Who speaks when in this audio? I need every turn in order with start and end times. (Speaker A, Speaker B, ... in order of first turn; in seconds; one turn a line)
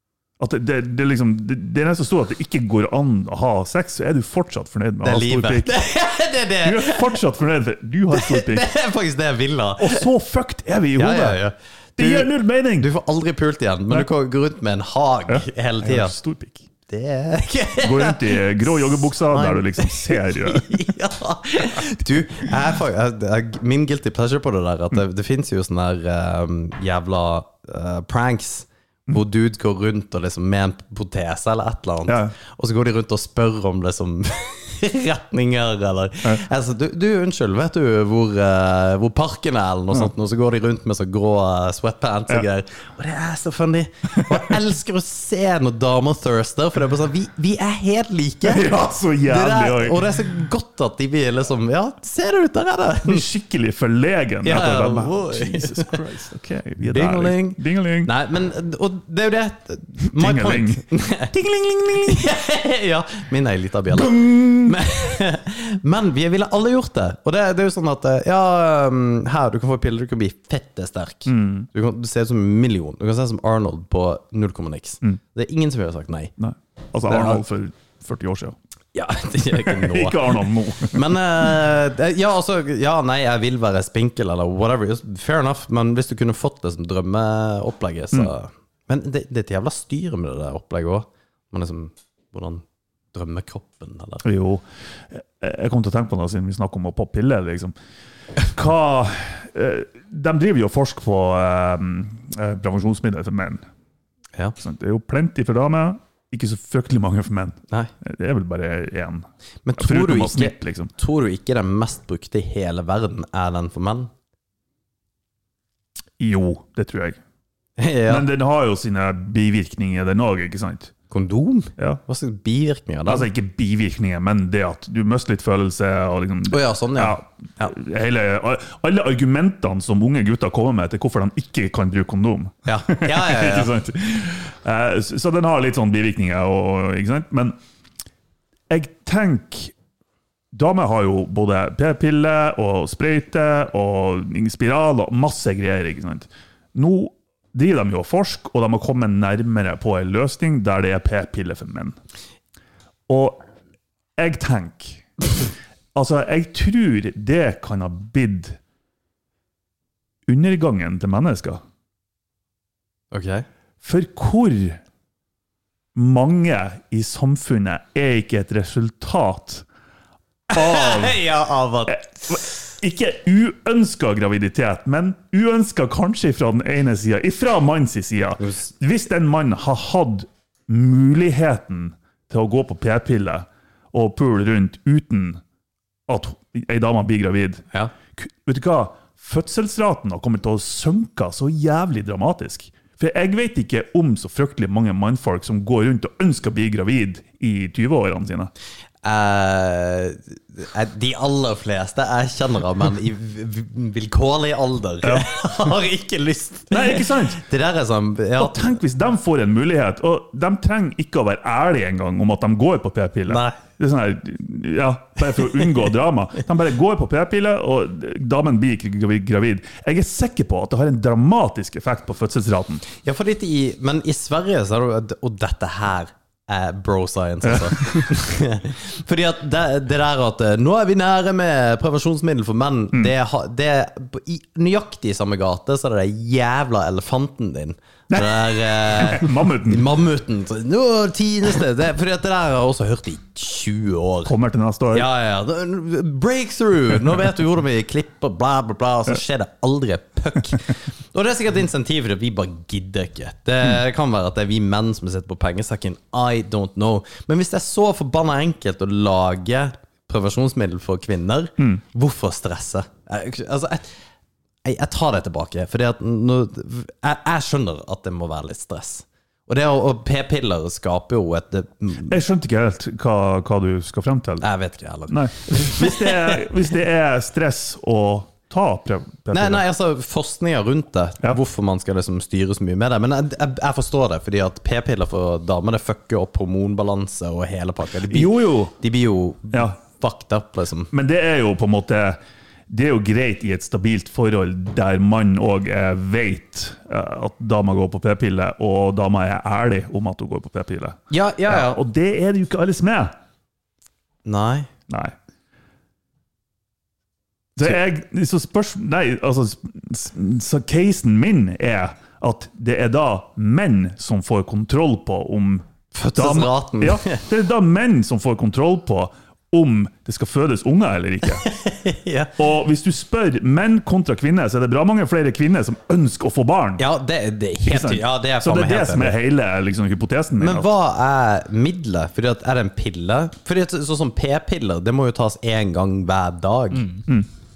Speaker A: 0.4-5.7
Speaker B: 5.0-7.2
Speaker A: 6.6-8.7
Speaker B: 8.1-10.1
Speaker A: 9.8-11.4
Speaker B: 11.0-16.1
Speaker A: 12.0-12.9
Speaker A: 15.3-16.6
Speaker B: 16.9-53.3
Speaker A: 17.8-20.9
Speaker A: 32.1-32.3
Speaker A: 48.4-50.2
Speaker A: 53.0-58.1
Speaker B: 54.4-56.0
Speaker B: 56.8-61.3
Speaker A: 60.0-62.2
Speaker B: 62.0-76.3
Speaker A: 63.9-64.8
Speaker A: 71.2-71.7
Speaker A: 76.4-78.5
Speaker B: 77.1-77.4
Speaker B: 78.9-94.2
Speaker A: 79.5-81.2
Speaker A: 94.2-97.7
Speaker A: 98.4-103.6
Speaker A: 104.6-109.2
Speaker B: 109.7-114.1
Speaker A: 109.8-110.9
Speaker A: 116.2-117.2
Speaker B: 117.8-118.2
Speaker A: 118.1-120.9
Speaker B: 121.1-123.3
Speaker A: 123.0-137.6
Speaker B: 126.5-127.7
Speaker B: 132.7-133.7
Speaker A: 138.7-139.7
Speaker A: 140.5-152.0
Speaker A: 153.1-153.4
Speaker A: 154.2-155.0
Speaker A: 155.9-158.6
Speaker A: 160.3-161.6
Speaker B: 163.1-163.4
Speaker A: 163.8-164.8
Speaker A: 165.9-169.6
Speaker B: 170.5-172.3
Speaker A: 170.5-171.2
Speaker A: 171.9-185.4
Speaker B: 178.4-178.7
Speaker A: 186.1-187.6
Speaker A: 188.2-198.5
Speaker B: 199.0-208.7
Speaker A: 206.7-207.4
Speaker A: 208.4-222.8
Speaker B: 213.3-213.6
Speaker B: 223.0-244.3
Speaker A: 227.4-228.1
Speaker A: 238.1-239.9
Speaker A: 244.2-245.1
Speaker B: 244.9-263.9
Speaker B: 264.6-272.2
Speaker A: 272.1-274.4
Speaker B: 274.4-276.5
Speaker A: 275.1-279.6
Speaker B: 279.3-290.9
Speaker A: 288.1-288.7
Speaker A: 289.5-289.8
Speaker A: 290.9-303.1
Speaker B: 301.1-301.8
Speaker B: 304.2-304.7
Speaker A: 304.9-305.1
Speaker A: 307.6-321.5
Speaker B: 315.9-317.2
Speaker B: 321.4-322.3
Speaker A: 322.4-326.8
Speaker B: 326.8-329.1
Speaker A: 327.6-330.7
Speaker B: 330.4-337.0